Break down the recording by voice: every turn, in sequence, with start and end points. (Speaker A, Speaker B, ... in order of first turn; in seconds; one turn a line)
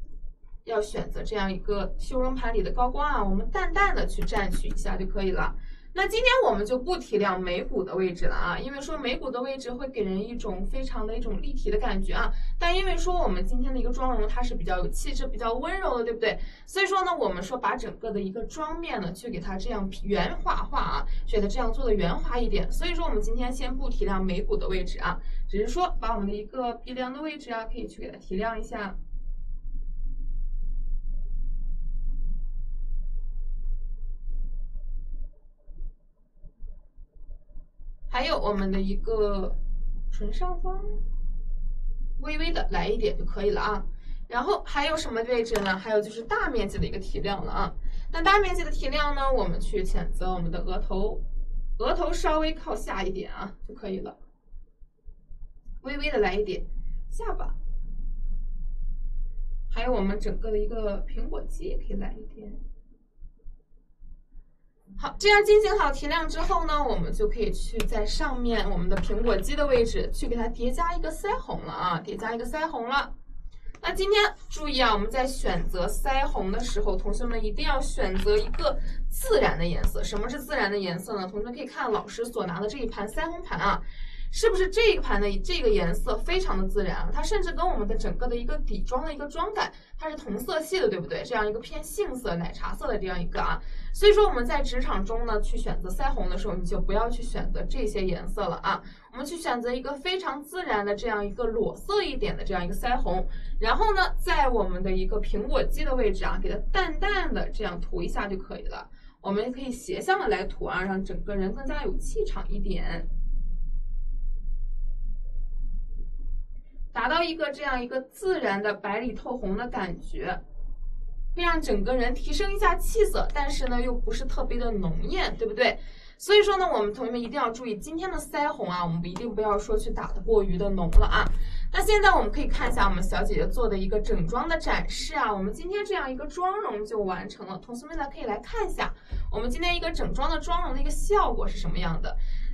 Speaker A: 0.7-29.0
Speaker A: 38.1-39.6
Speaker A: 40.1-41.0
Speaker A: 42.2-51.2
Speaker A: 51.8-54.2
Speaker A: 55.8-57.5
Speaker A: 59.7-62.6
Speaker A: 65.0-73.1
Speaker A: 73.8-113.1
Speaker A: 116.9-120.4
Speaker A: 121.3-142.2